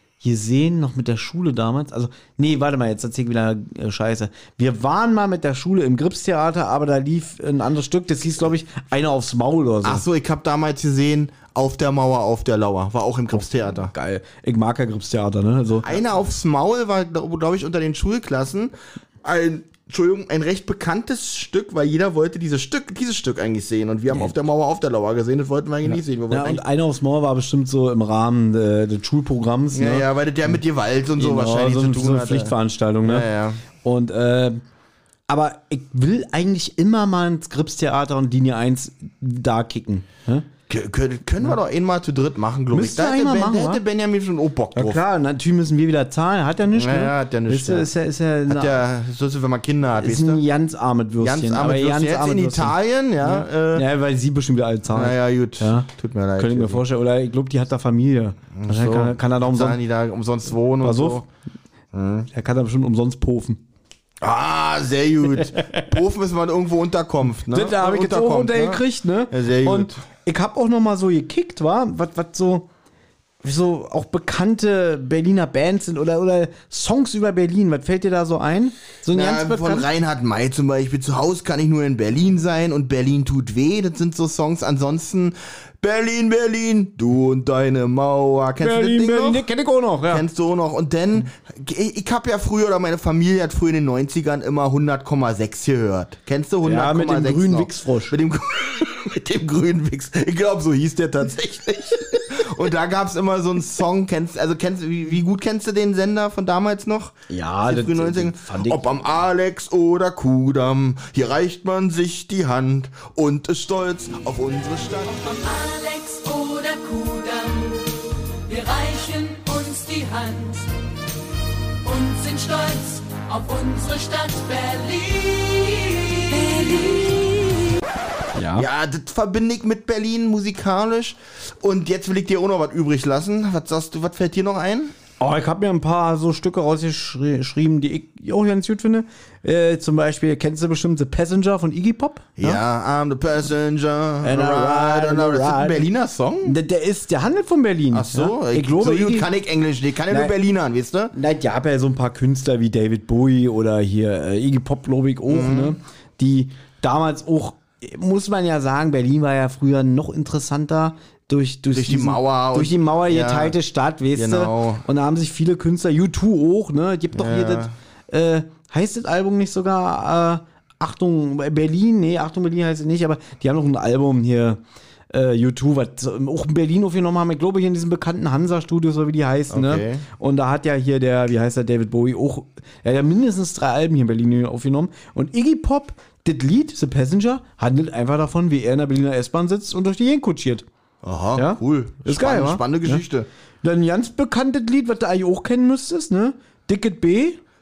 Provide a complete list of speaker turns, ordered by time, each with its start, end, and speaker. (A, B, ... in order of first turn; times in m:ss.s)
0:00.2-0:10.0 A
0:09.8-0:13.9 B
0:13.3-0:15.9 A
0:15.8-0:26.6 B
0:25.9-0:30.1 A
0:29.7-0:33.6 B
0:31.2-0:33.3 A
0:33.8-0:34.6 A
0:35.3-0:40.4 A
0:40.7-0:45.0 B
0:42.7-0:43.8 A
0:44.7-0:48.8 A
0:46.7-0:47.9 B
0:48.5-0:50.4 B
0:50.0-0:59.8 A
0:51.2-0:53.9 B
0:54.9-0:56.8 B
0:58.6-1:01.3 B
1:00.8-1:01.2 A
1:01.9-1:02.3 B
1:02.3-1:03.6 A
1:04.2-1:10.0 B
1:05.6-1:05.9 A
1:07.5-1:12.7 A
1:13.4-1:19.9 A
1:19.1-1:29.4 B
1:28.6-1:30.2 A
1:30.1-1:55.3 B
1:36.6-1:38.2 A
1:47.3-1:48.8 A
1:55.1-2:00.7 C
2:01.8-2:07.8 C
2:08.4-2:08.7 A
2:08.6-2:14.9 B
2:15.2-2:22.6 A
2:22.4-2:26.6 B
2:24.2-2:25.9 A
2:26.4-2:29.3 A
2:27.9-2:31.1 B
2:31.1-2:54.6 A
2:35.3-2:35.8 B
2:41.7-2:43.6 B
2:44.1-2:44.8 B
2:47.1-2:47.7 B
2:55.1-3:10.6 A
2:59.5-3:00.0 B
3:11.0-3:13.3 B
3:11.4-3:13.0 A
3:13.6-3:17.4 A